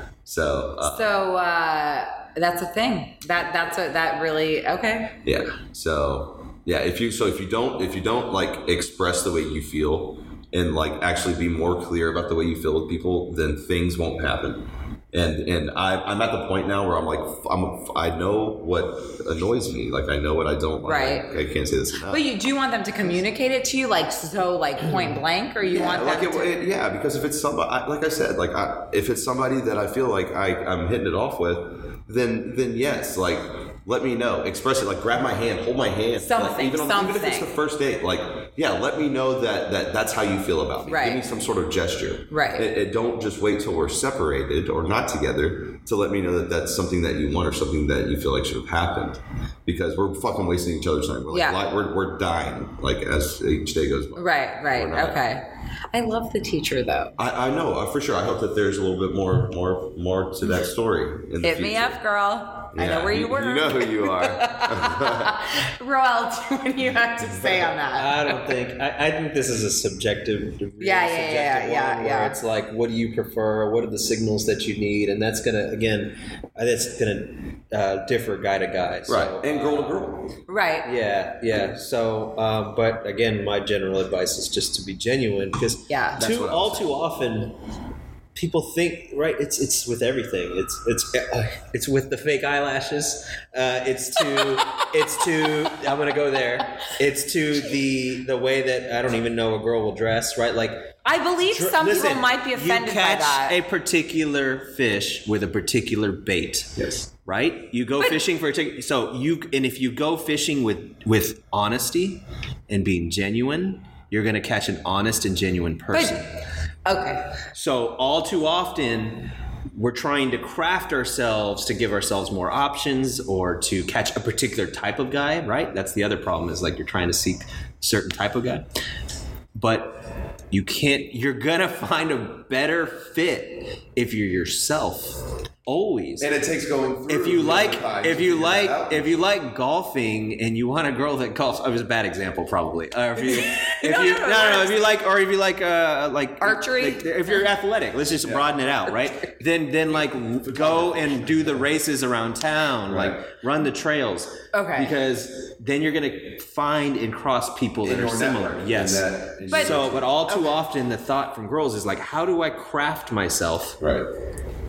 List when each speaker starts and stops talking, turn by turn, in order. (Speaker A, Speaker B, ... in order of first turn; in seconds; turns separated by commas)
Speaker A: 0.2-1.1, Speaker B: 0.8-5.2, Speaker A: 5.2-22.2, Speaker B: 20.8-21.3, Speaker B: 22.0-26.5, Speaker A: 25.6-55.2, Speaker B: 36.2-37.5, Speaker B: 40.9-41.2, Speaker B: 42.3-42.7, Speaker B: 51.3-51.6, Speaker B: 54.1-57.2, Speaker A: 57.2-62.0, Speaker B: 61.4-68.2, Speaker A: 62.7-65.4, Speaker A: 67.2-67.7, Speaker C: 67.9-80.0, Speaker B: 70.8-72.3, Speaker A: 79.1-80.3, Speaker B: 80.5-80.9, Speaker C: 80.8-87.5, Speaker B: 85.9-86.2, Speaker A: 86.2-86.9, Speaker C: 88.3-116.3, Speaker B: 101.0-103.6, Speaker B: 116.8-117.3, Speaker C: 117.5-128.7, Speaker C: 129.5-136.3, Speaker A: 136.2-139.2, Speaker C: 137.1-163.8, Speaker B: 143.2-144.8, Speaker B: 146.4-147.4, Speaker A: 148.2-148.6, Speaker A: 150.4-151.6, Speaker A: 152.9-153.2, Speaker B: 154.5-154.9, Speaker A: 157.8-160.2, Speaker B: 159.5-160.4, Speaker A: 163.8-164.1